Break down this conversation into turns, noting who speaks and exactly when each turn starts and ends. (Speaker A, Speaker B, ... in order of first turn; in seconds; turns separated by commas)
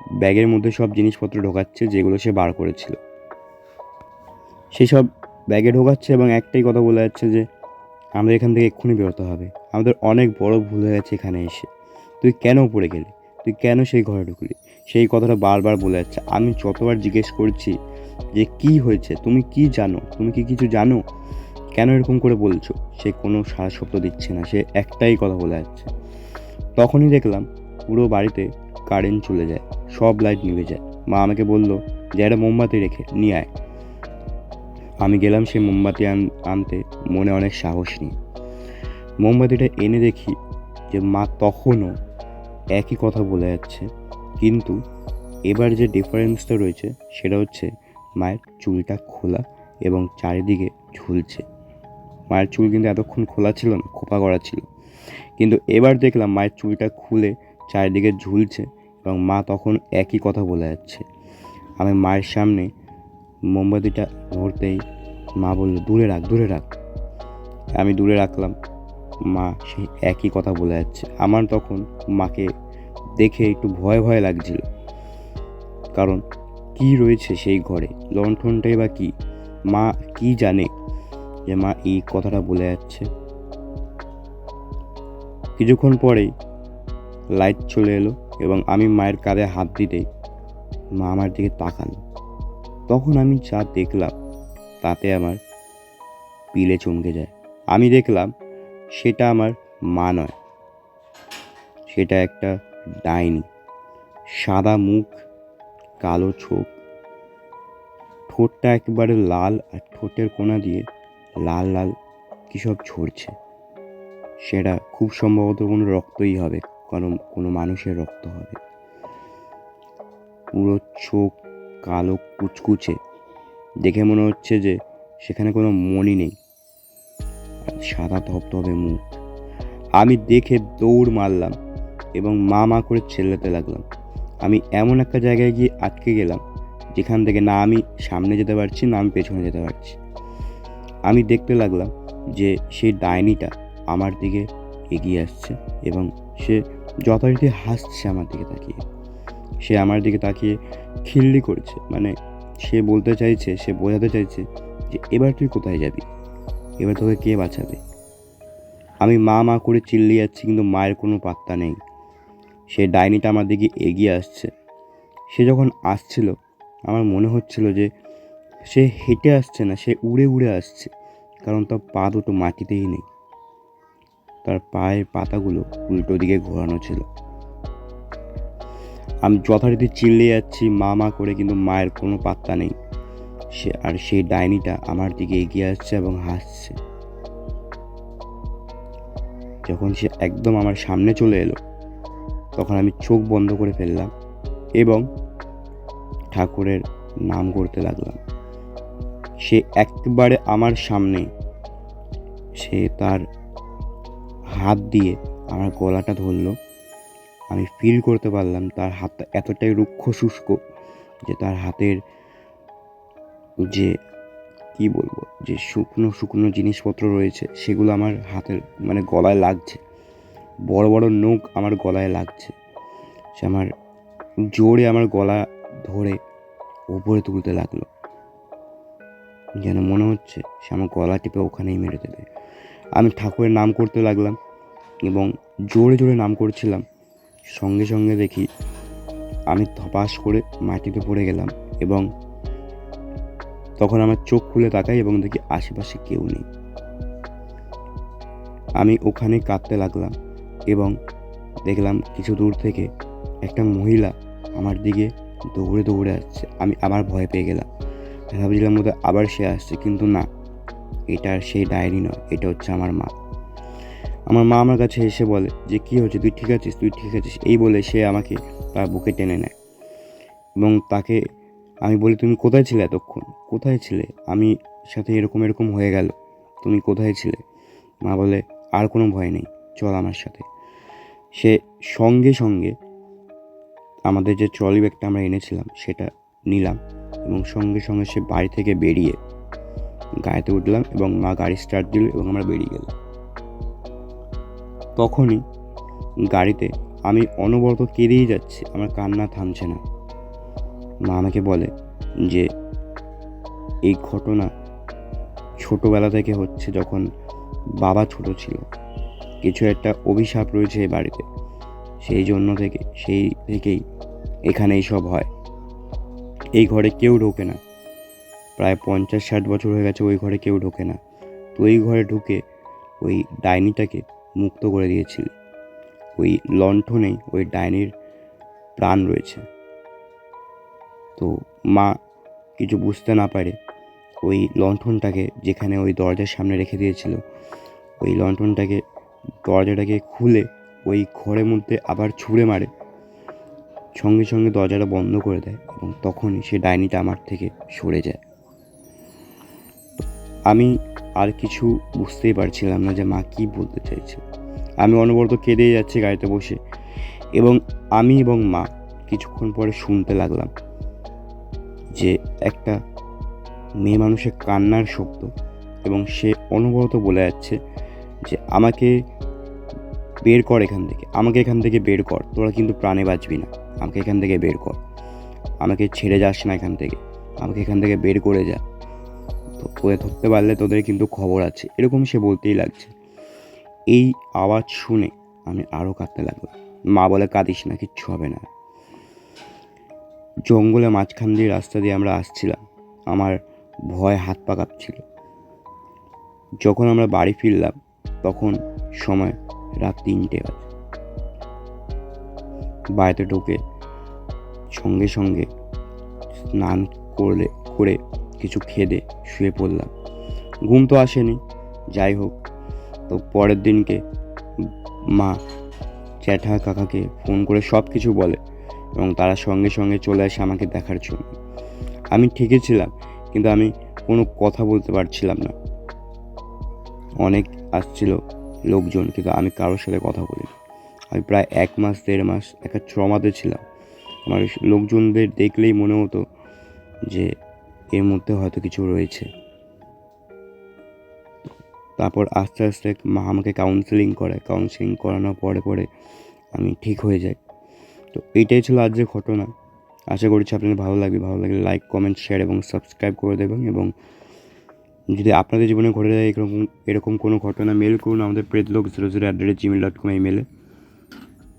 Speaker A: 0.2-3.0, Speaker A: 4.7-7.4, Speaker A: 8.2-11.7, Speaker A: 12.2-17.7, Speaker A: 18.3-21.0, Speaker A: 21.7-25.9, Speaker A: 26.8-33.5, Speaker A: 35.0-38.1, Speaker A: 39.2-40.4, Speaker A: 40.9-41.9, Speaker A: 42.8-43.9, Speaker A: 44.4-44.8, Speaker A: 45.5-51.4, Speaker A: 52.3-54.6, Speaker A: 55.4-61.0, Speaker A: 61.8-62.7, Speaker A: 63.5-64.8, Speaker A: 65.4-66.7, Speaker A: 67.8-68.5, Speaker A: 69.3-72.5, Speaker A: 73.2-74.6, Speaker A: 76.0-76.2, Speaker A: 76.8-79.1, Speaker A: 79.7-80.7, Speaker A: 81.5-83.1, Speaker A: 85.6-86.3, Speaker A: 87.3-90.0, Speaker A: 91.0-92.0, Speaker A: 92.9-94.1, Speaker A: 94.8-95.4, Speaker A: 96.5-98.3, Speaker A: 98.9-100.3, Speaker A: 101.9-102.5, Speaker A: 103.0-103.5, Speaker A: 104.3-105.2, Speaker A: 106.0-106.7, Speaker A: 108.3-110.8, Speaker A: 111.4-111.9, Speaker A: 112.5-113.3, Speaker A: 114.4-118.6, Speaker A: 120.5-123.0, Speaker A: 123.8-126.3, Speaker A: 127.7-129.2, Speaker A: 130.0-131.5, Speaker A: 132.2-133.8, Speaker A: 134.4-136.4, Speaker A: 136.9-140.0, Speaker A: 141.1-148.8, Speaker A: 149.6-156.1, Speaker A: 156.8-157.8, Speaker A: 159.0-161.8, Speaker A: 162.7-164.5, Speaker A: 165.3-166.3, Speaker A: 166.9-167.9, Speaker A: 168.7-170.9, Speaker A: 171.4-173.0, Speaker A: 174.4-177.1, Speaker A: 179.2-182.7, Speaker A: 183.6-186.8, Speaker A: 189.7-191.6, Speaker A: 192.6-194.1, Speaker A: 194.8-195.0, Speaker A: 196.3-198.2, Speaker A: 199.4-201.3, Speaker A: 202.6-203.2, Speaker A: 204.6-206.5, Speaker A: 207.5-210.6, Speaker A: 211.3-212.0, Speaker A: 213.7-213.9, Speaker A: 214.8-219.8, Speaker A: 220.7-222.5, Speaker A: 223.4-223.7, Speaker A: 224.5-226.2, Speaker A: 226.9-227.9, Speaker A: 229.6-232.2, Speaker A: 232.9-234.4, Speaker A: 235.0-236.8, Speaker A: 237.6-238.5, Speaker A: 239.5-242.1, Speaker A: 243.8-246.4, Speaker A: 248.8-250.1, Speaker A: 250.7-250.9, Speaker A: 251.7-252.9, Speaker A: 253.4-257.7, Speaker A: 258.3-260.3, Speaker A: 261.1-263.1, Speaker A: 264.3-269.5, Speaker A: 270.6-271.2, Speaker A: 271.8-277.4, Speaker A: 278.0-280.5, Speaker A: 281.4-282.7, Speaker A: 284.1-289.2, Speaker A: 290.2-292.9, Speaker A: 295.0-295.4, Speaker A: 296.3-299.8, Speaker A: 301.1-301.7, Speaker A: 303.9-304.5, Speaker A: 305.6-307.1, Speaker A: 307.8-308.6, Speaker A: 309.4-311.3, Speaker A: 312.0-313.8, Speaker A: 314.5-315.3, Speaker A: 316.5-317.6, Speaker A: 318.6-321.0, Speaker A: 321.5-322.4, Speaker A: 323.0-325.3, Speaker A: 326.2-327.9, Speaker A: 328.8-329.4, Speaker A: 331.2-331.9, Speaker A: 332.6-333.6, Speaker A: 334.2-337.2, Speaker A: 338.0-338.8, Speaker A: 339.4-342.7, Speaker A: 344.0-348.2, Speaker A: 350.0-354.2, Speaker A: 354.8-356.6, Speaker A: 357.4-360.5, Speaker A: 361.9-362.8, Speaker A: 363.8-365.3, Speaker A: 365.8-367.6, Speaker A: 368.2-368.9, Speaker A: 370.2-374.8, Speaker A: 375.6-378.6, Speaker A: 379.6-382.9, Speaker A: 383.9-388.4, Speaker A: 390.5-392.6, Speaker A: 393.1-393.4, Speaker A: 393.9-395.0, Speaker A: 396.6-400.7, Speaker A: 403.0-403.6, Speaker A: 404.7-405.5, Speaker A: 406.5-409.9, Speaker A: 410.7-411.4, Speaker A: 411.9-412.4, Speaker A: 413.1-414.0, Speaker A: 414.6-415.4, Speaker A: 416.2-418.4, Speaker A: 418.9-421.3, Speaker A: 422.1-425.5, Speaker A: 427.2-430.5, Speaker A: 431.1-433.6, Speaker A: 434.3-436.2, Speaker A: 437.9-439.3, Speaker A: 442.0-445.9, Speaker A: 446.5-447.4, Speaker A: 448.1-449.5, Speaker A: 450.1-453.9, Speaker A: 455.1-460.4